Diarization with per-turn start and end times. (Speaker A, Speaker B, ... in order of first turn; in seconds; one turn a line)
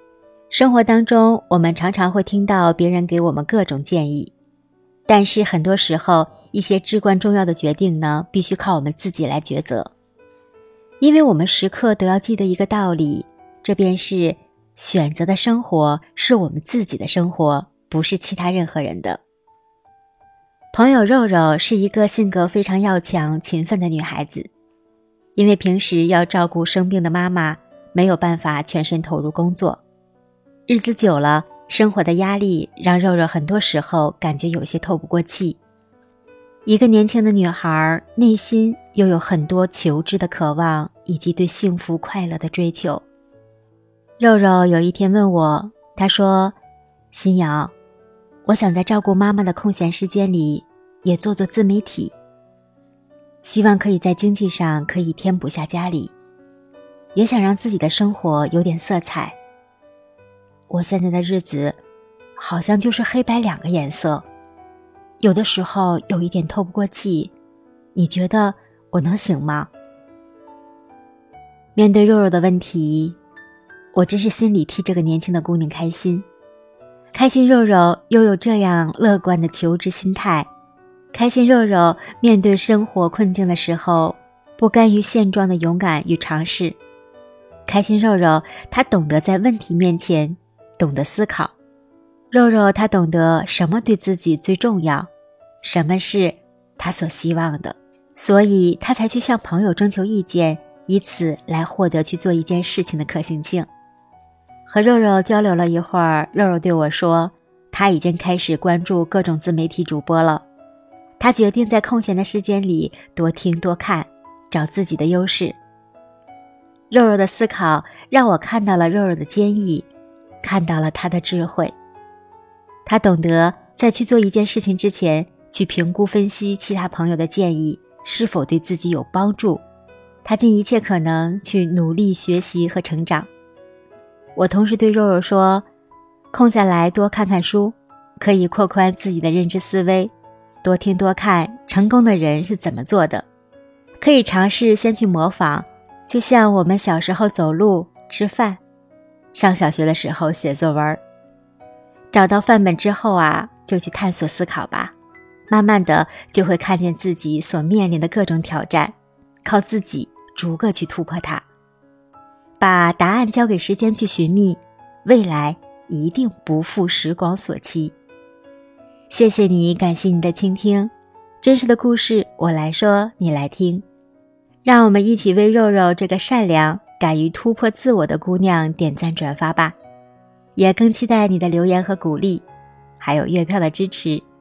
Speaker A: 0.5-4.3
Speaker A: 5.1-9.9
Speaker A: 11.0-19.2
Speaker A: 20.7-24.5
Speaker A: 25.4-29.8
Speaker A: 30.7-35.6
Speaker A: 36.6-43.0
Speaker A: 44.2-46.5
Speaker A: 47.1-47.7
Speaker A: 48.5-52.1
Speaker A: 53.4-56.1
Speaker A: 57.1-59.4
Speaker A: 60.7-61.8
Speaker A: 62.4-64.2
Speaker A: 65.2-67.3
Speaker A: 68.0-69.7
Speaker A: 71.8-73.2
Speaker A: 73.9-76.3
Speaker A: 77.1-80.5
Speaker A: 81.1-86.8
Speaker A: 87.7-91.5
Speaker A: 92.3-95.1
Speaker A: 95.6-103.7
Speaker A: 104.7-110.5
Speaker A: 111.2-115.6
Speaker A: 116.9-119.9
Speaker A: 120.4-121.7
Speaker A: 122.8-129.6
Speaker A: 130.2-133.3
Speaker A: 134.3-135.7
Speaker A: 136.3-140.1
Speaker A: 140.6-143.2
Speaker A: 144.0-148.6
Speaker A: 149.3-151.0
Speaker A: 152.1-154.9
Speaker A: 155.5-161.4
Speaker A: 162.6-168.0
Speaker A: 169.1-173.8
Speaker A: 174.7-179.8
Speaker A: 180.6-182.4
Speaker A: 183.0-184.2